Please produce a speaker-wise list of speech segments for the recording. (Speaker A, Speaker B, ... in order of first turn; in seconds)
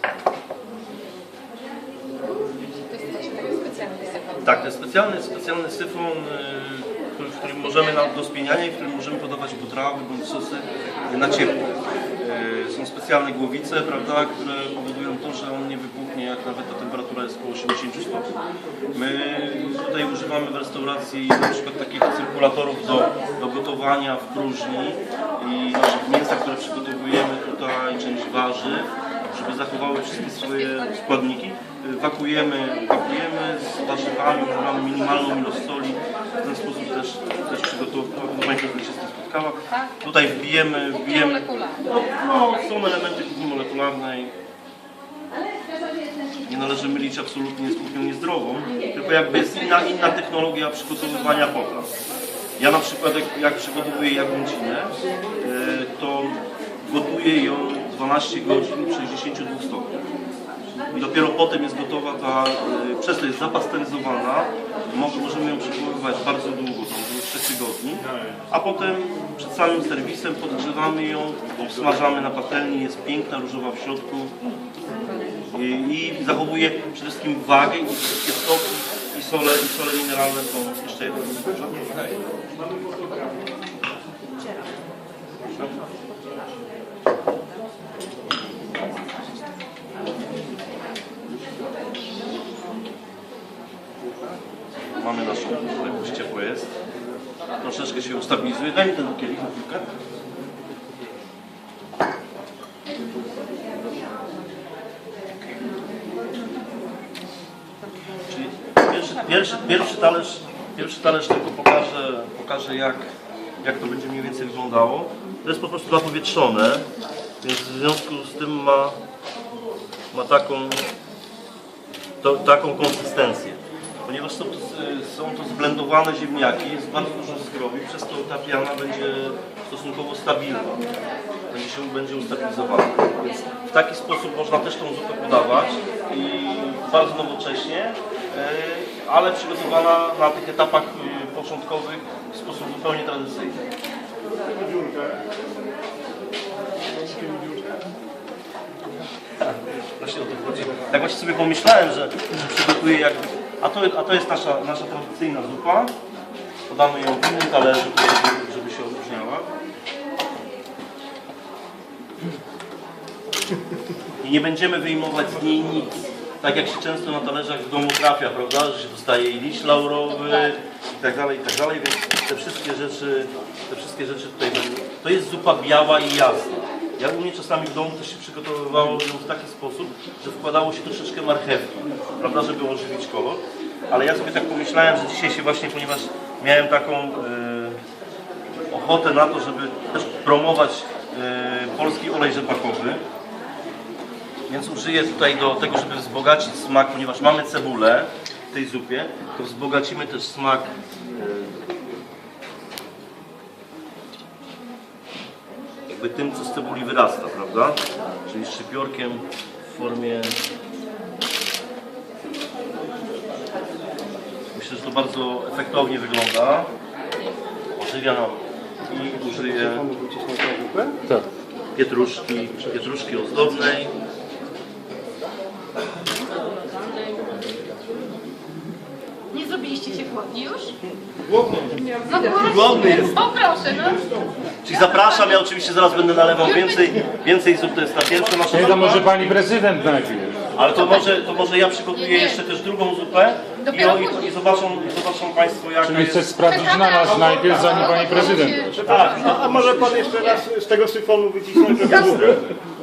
Speaker A: 2.8-4.7, 30.4-30.9, 39.7-40.0, 40.9-41.9, 226.2-227.3, 229.3-230.7, 232.0-234.0, 234.7-235.4, 236.4-237.0, 240.7-241.2, 241.9-242.4, 243.6-244.3, 246.4-250.4, 251.8-252.2
Speaker B: 4.4-11.6, 12.2-18.3, 18.9-44.3, 46.5-52.0, 52.6-60.0, 60.9-74.3, 75.5-82.0, 95.0-96.7, 97.6-99.9, 108.3-113.1, 113.6-116.8, 117.4-119.0, 120.1-120.8, 122.2-130.8, 131.5-143.6, 149.4-155.9, 156.7-159.5, 164.2-187.8, 188.7-193.0, 194.5-201.6, 205.9-210.4, 214.5-216.7, 217.8-219.8, 221.8-223.9, 232.3-233.3, 234.6-239.1, 240.5-246.4, 248.8-250.3, 251.8-252.6
Speaker C: 82.8-83.3, 144.5-145.2, 146.9-147.8, 219.1-221.0, 231.3-233.0, 233.7-234.1, 247.3-252.6
Speaker D: 238.4-240.4, 245.8-249.1